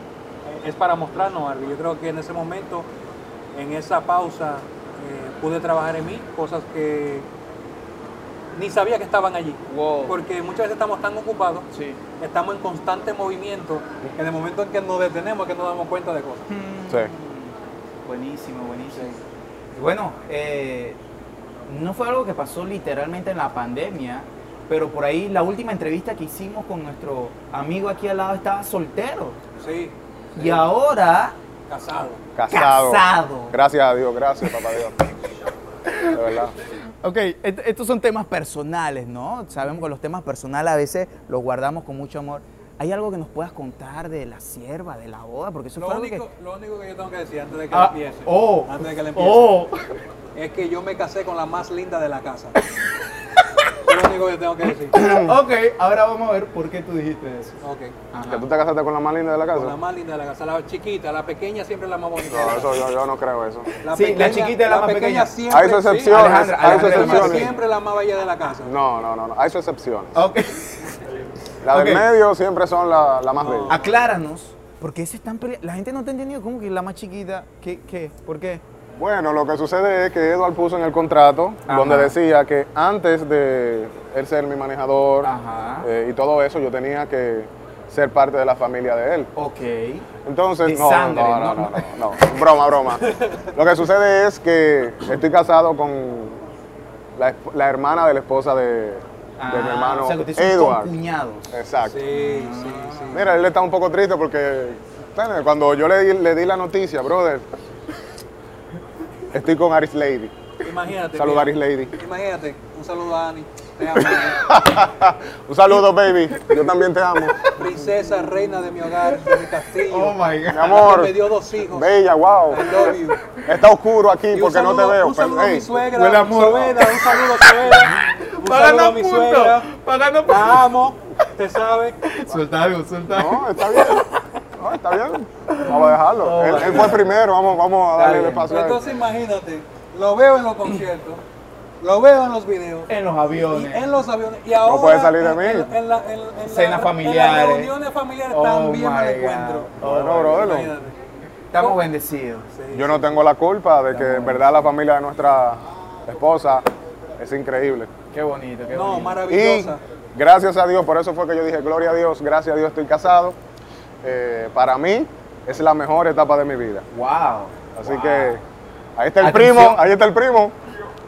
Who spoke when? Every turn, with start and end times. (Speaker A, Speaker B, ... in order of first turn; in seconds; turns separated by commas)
Speaker A: 0.5-2.9, Speaker A: 3.5-7.3, Speaker A: 8.5-16.5, Speaker B: 9.7-10.2, Speaker B: 11.7-12.0, Speaker B: 16.5-19.2, Speaker A: 18.9-19.2, Speaker B: 19.7-21.0, Speaker B: 21.7-29.4, Speaker A: 29.6-30.7, Speaker B: 30.4-31.4, Speaker A: 31.7-32.2, Speaker C: 32.4-35.0, Speaker B: 32.5-33.6, Speaker B: 35.9-36.2, Speaker C: 36.1-36.5, Speaker B: 36.9-46.2, Speaker A: 45.8-49.6, Speaker B: 47.7-49.9, Speaker A: 50.3-52.6, Speaker A: 53.8-55.1, Speaker B: 54.9-57.6, Speaker C: 55.0-55.3, Speaker A: 57.6-58.0, Speaker B: 58.1-58.5, Speaker C: 58.2-59.8, Speaker A: 59.5-62.9, Speaker C: 62.3-63.7, Speaker A: 63.8-68.7, Speaker B: 63.9-65.3, Speaker C: 65.5-67.5, Speaker B: 66.1-67.5, Speaker C: 68.7-70.2, Speaker B: 70.2-71.0, Speaker C: 71.6-73.8, Speaker B: 71.7-72.1, Speaker A: 73.4-73.9, Speaker B: 73.7-78.6, Speaker C: 79.0-89.3, Speaker B: 81.7-82.2, Speaker B: 85.2-85.9, Speaker B: 89.4-90.1, Speaker C: 90.2-96.5, Speaker B: 90.6-92.0, Speaker A: 93.0-93.5, Speaker C: 97.2-101.0, Speaker B: 99.4-103.2, Speaker C: 101.5-102.0, Speaker A: 101.8-103.4, Speaker C: 103.1-107.5, Speaker C: 109.3-110.3, Speaker A: 110.6-114.5, Speaker C: 111.1-111.9, Speaker C: 114.3-117.4, Speaker B: 116.3-116.7, Speaker B: 117.3-117.7, Speaker A: 117.5-121.9, Speaker B: 119.9-120.7, Speaker C: 120.5-122.9, Speaker A: 122.5-123.2, Speaker C: 123.4-125.9, Speaker A: 124.3-129.7, Speaker B: 125.9-130.7, Speaker A: 130.2-132.0, Speaker B: 132.0-134.0, Speaker C: 133.1-134.0, Speaker C: 134.6-139.0, Speaker B: 135.5-137.0, Speaker B: 137.9-138.5, Speaker A: 138.5-141.2, Speaker A: 141.8-142.9, Speaker B: 142.9-143.9, Speaker A: 143.4-151.0, Speaker C: 144.6-145.8, Speaker B: 146.5-147.7, Speaker B: 148.3-150.5, Speaker C: 149.8-150.8, Speaker B: 151.5-152.5, Speaker A: 151.6-151.8, Speaker A: 152.5-153.2, Speaker C: 152.7-157.9, Speaker B: 153.9-154.5, Speaker B: 158.1-159.2, Speaker A: 158.7-159.8, Speaker C: 159.3-163.4, Speaker C: 164.0-166.9, Speaker B: 166.9-168.4, Speaker C: 167.7-168.4, Speaker C: 169.0-170.6, Speaker B: 169.2-169.8